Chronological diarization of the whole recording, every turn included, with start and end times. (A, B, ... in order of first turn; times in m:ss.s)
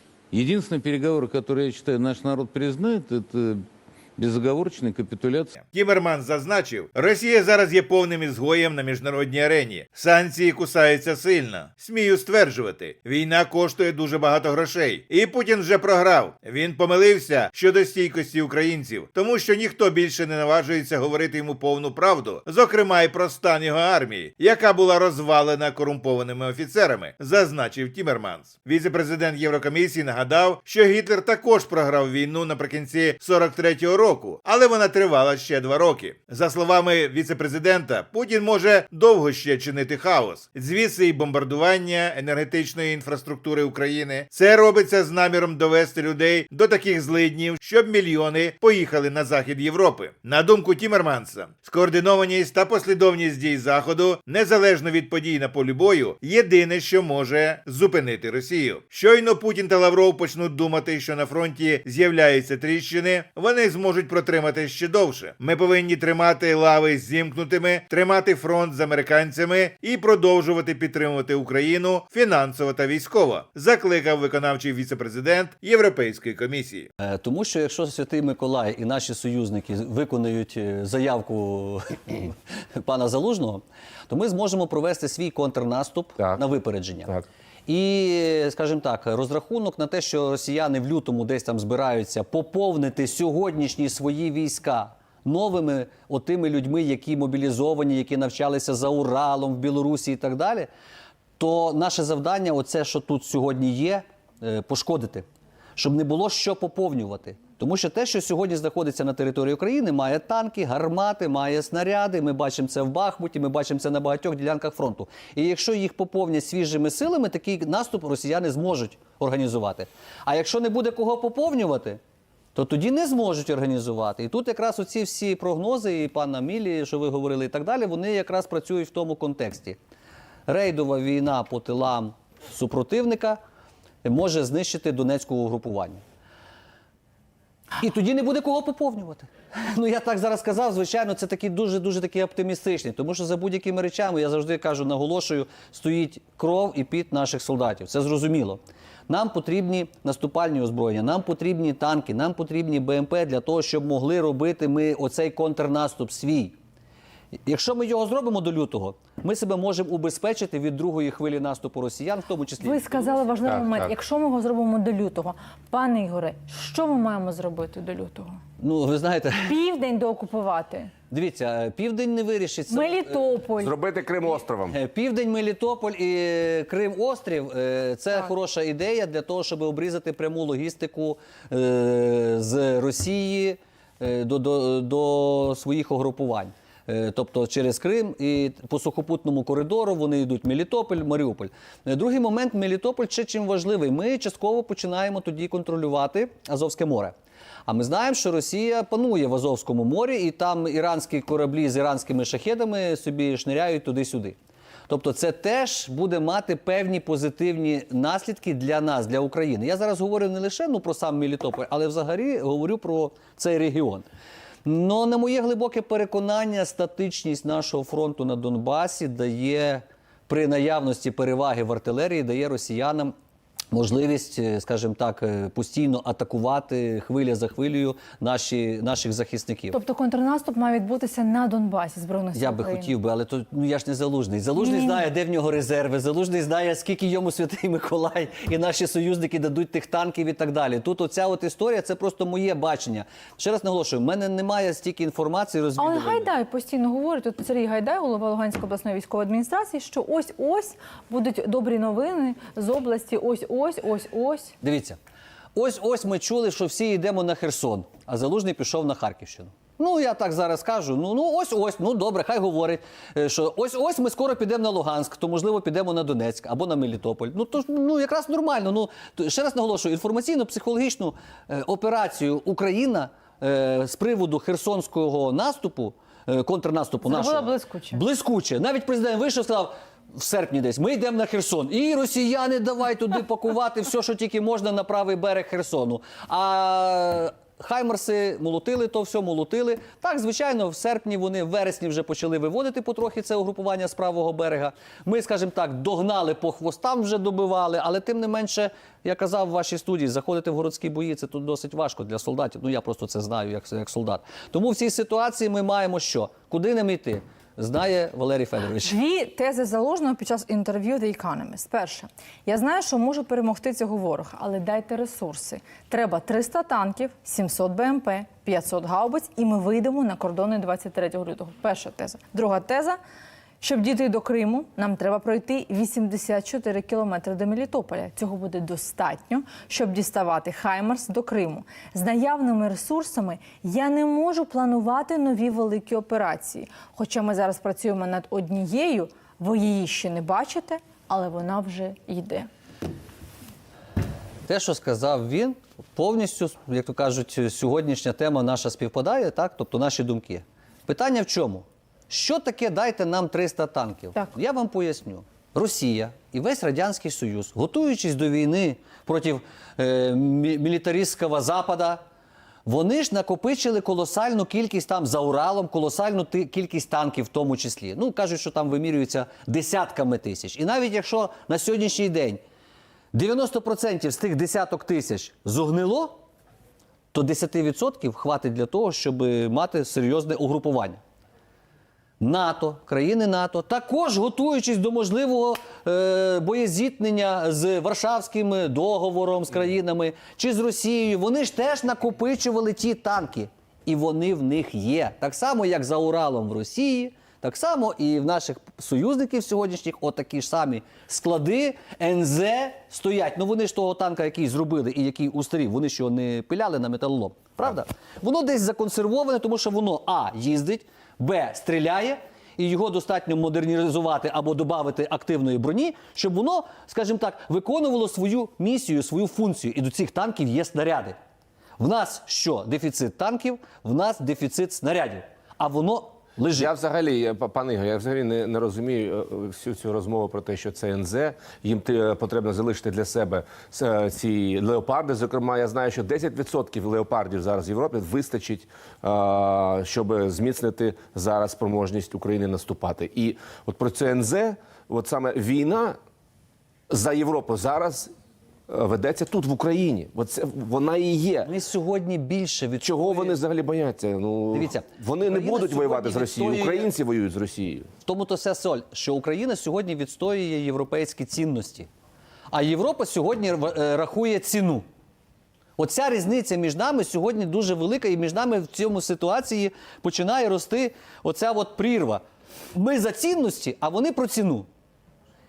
0:00.3-0:05.5 A
0:05.6-1:16.9 B
1:17.0-1:40.7 C
1:41.4-1:45.2 C
1:45.8-2:02.0 C
2:02.5-2:09.8 C
2:10.5-2:13.4 C
2:14.0-2:16.0 C
2:17.8-2:36.6 C
2:37.4-2:43.3 C
2:42.6-2:48.3 D
2:43.5-2:43.9 E
2:48.6-2:49.6 C
2:49.4-2:50.9 D
2:51.1-2:53.5 C
2:52.7-2:53.7 D
2:53.6-2:54.8 E
2:54.7-3:17.1 C
3:17.6-3:24.4 C
3:24.9-3:34.0 C
3:34.6-3:43.1 C
3:43.7-3:49.8 C
3:49.7-3:52.9 D
3:52.3-4:06.3 C
3:54.6-3:55.1 D
4:05.8-4:14.6 D
4:14.6-4:15.0 C
4:15.5-5:09.0 C
4:37.0-4:38.0 D
5:08.8-5:23.0 D
5:23.6-5:42.5 D
5:44.5-6:02.0 C
6:02.6-6:12.4 C
6:13.1-6:16.2 C
6:17.1-6:21.0 C
6:22.2-7:01.2 C
7:01.8-7:06.7 C
7:06.6-7:26.0 E
7:26.9-7:28.1 E
7:28.7-7:31.5 E
7:31.4-7:33.4 C
7:32.8-7:37.9 E
7:34.5-7:36.9 C
7:38.0-7:41.9 C
7:42.5-7:44.8 C
7:45.8-7:52.2 C
7:52.7-7:54.7 C